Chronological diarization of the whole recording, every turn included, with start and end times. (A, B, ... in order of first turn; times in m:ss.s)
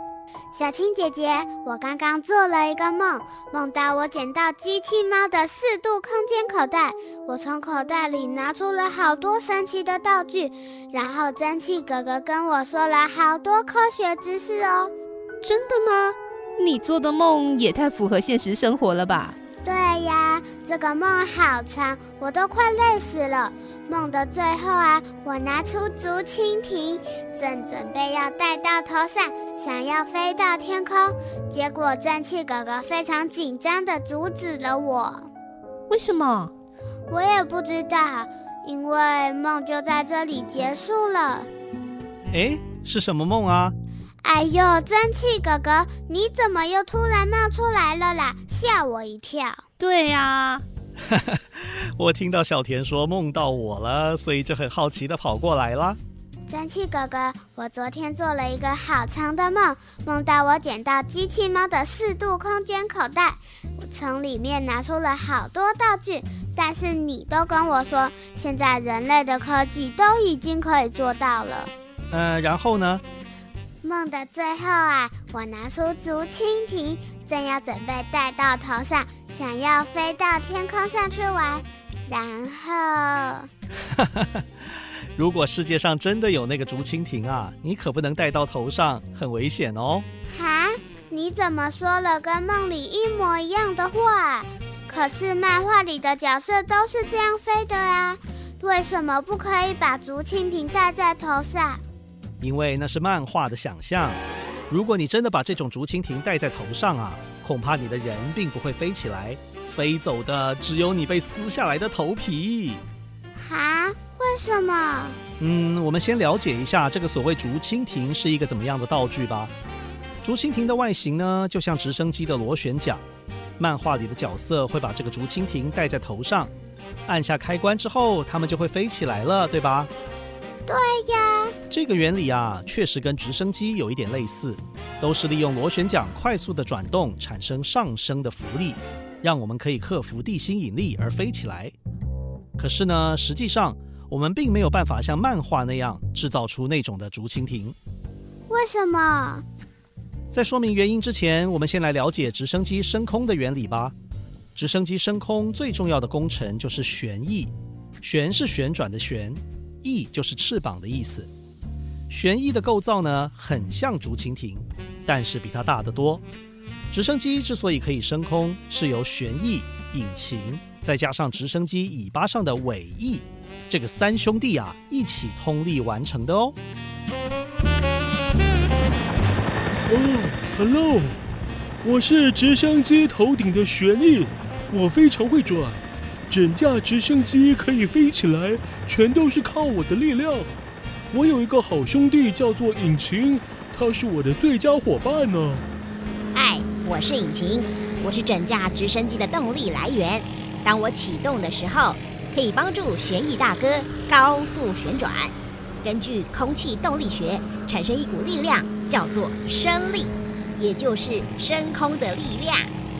0:00.5-0:14.9 A
0:15.4-0:19.4 B
0:19.6-0:35.3 A
0:35.9-0:36.5 B
0:37.1-0:41.5 A
0:42.3-0:43.7 C
0:44.2-0:49.6 A
0:49.8-0:50.6 B
0:51.0-0:56.0 C
0:56.5-1:11.7 A
1:12.1-1:13.0 C
1:13.8-1:23.5 A
1:23.8-1:30.0 C
1:30.3-1:41.8 A
1:42.4-1:52.8 C
1:53.4-1:55.2 A
1:55.4-1:59.5 C
2:00.2-2:03.0 C
2:03.6-2:06.5 C
2:07.0-2:09.9 C
2:10.6-2:11.6 A
2:11.7-2:21.7 C
2:22.6-2:27.8 C
2:28.5-2:29.4 A
2:30.3-2:33.9 C
2:34.5-2:41.3 C
2:42.1-2:46.2 C
2:46.9-2:56.6 C
2:59.8-3:01.2 D
3:01.8-3:10.5 D
3:11.1-3:15.6 D
3:16.3-3:32.7 E